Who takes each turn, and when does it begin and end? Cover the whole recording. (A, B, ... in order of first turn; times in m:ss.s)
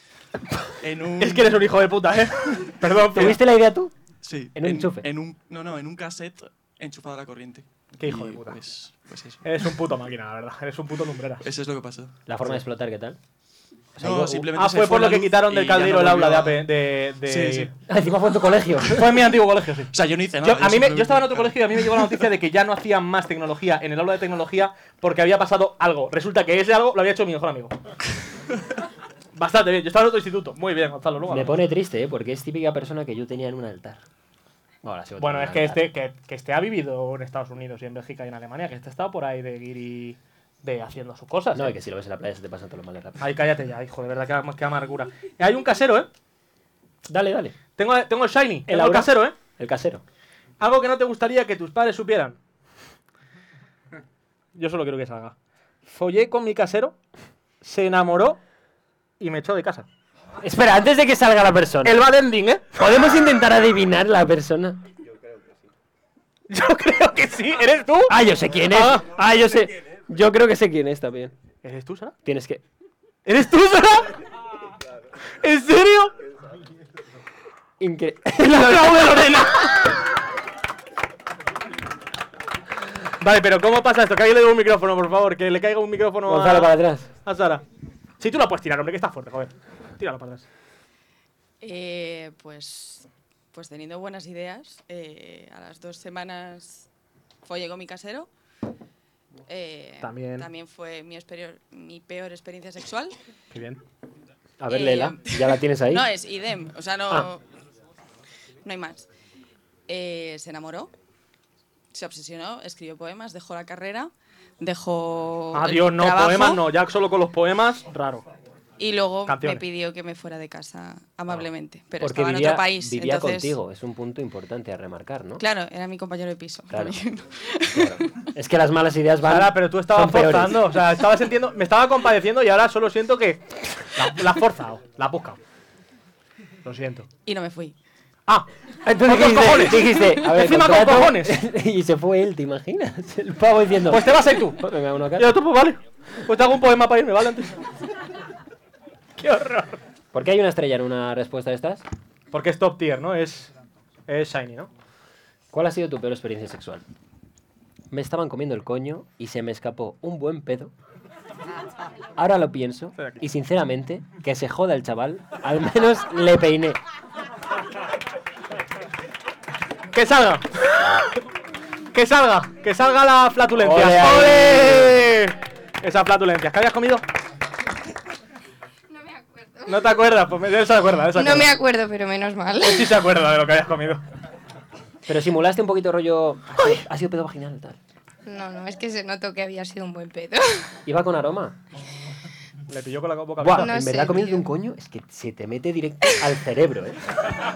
0:00.8-0:01.6 A
0:01.2-0:03.4 B
0:03.0-0:03.9 C
0:04.2-0:09.4 A
0:04.6-0:05.1 C
0:08.0-0:08.6 B
0:09.4-0:11.4 B
0:11.4-0:12.2 A
0:12.3-0:13.2 C
0:14.0-0:14.5 C
0:14.0-0:16.7 A
0:14.5-0:17.7 B
0:17.2-0:17.7 A
0:17.9-0:19.2 C
0:18.9-0:27.7 B
0:19.9-0:22.2 A
0:29.4-0:31.6 B
0:31.3-0:34.0 C
0:34.8-0:35.9 C
0:35.2-0:41.7 B
0:41.5-0:43.2 C
0:43.2-0:46.1 B
0:47.1-0:47.6 C
0:47.8-0:49.3 B
0:48.7-0:50.0 C
0:50.6-0:52.4 B
0:54.6-0:55.3 B
0:55.9-0:57.0 B
0:57.6-0:58.4 B
0:59.2-0:59.8 B
1:00.4-1:02.0 C
1:01.8-1:02.7 B
1:02.7-1:04.8 C
1:06.5-1:08.1 B
1:08.1-1:11.3 C
1:08.7-1:09.0 B
1:11.6-1:12.1 B
1:12.2-1:12.6 C
1:13.3-1:14.0 B
1:15.4-1:16.1 B
1:17.8-1:19.4 C
1:18.5-1:19.5 B
1:23.2-1:26.7 B
1:26.3-1:27.1 C
1:27.2-1:27.6 B
1:28.2-1:30.4 B
1:31.6-1:36.9 D
1:37.4-1:38.3 D
1:39.5-1:43.1 D
1:40.0-1:40.5 B
1:43.5-1:43.8 B
1:44.6-1:46.1 C
1:44.7-1:47.4 D
1:48.6-1:49.1 D
1:49.9-1:50.9 D
1:51.9-1:56.6 D
1:55.5-1:58.3 B
1:58.8-2:03.5 D
1:59.3-1:59.6 B
2:02.0-2:05.4 C
2:05.4-2:08.0 D
2:06.7-2:07.0 C
2:07.7-2:10.7 C
2:09.2-2:15.4 B
2:16.6-2:17.1 B
2:17.3-2:17.8 D
2:18.8-2:25.4 C
2:19.0-2:21.4 B
2:23.9-2:24.6 B
2:25.2-2:27.5 B
2:29.2-2:29.8 B
2:30.1-2:31.8 C
2:32.3-2:33.5 B
2:34.1-2:34.7 B
2:35.5-2:36.8 C
2:37.9-2:40.7 C
2:42.2-2:46.8 C
2:49.9-2:50.4 B
2:51.9-2:57.0 B
2:53.5-2:55.0 C
2:58.9-2:59.5 E
2:59.7-3:01.6 B
3:01.3-3:02.6 E
3:02.6-3:04.0 B
3:05.1-3:07.8 C
3:08.3-3:10.3 E
3:10.8-3:11.6 C
3:12.7-3:13.8 B
3:13.4-3:17.0 C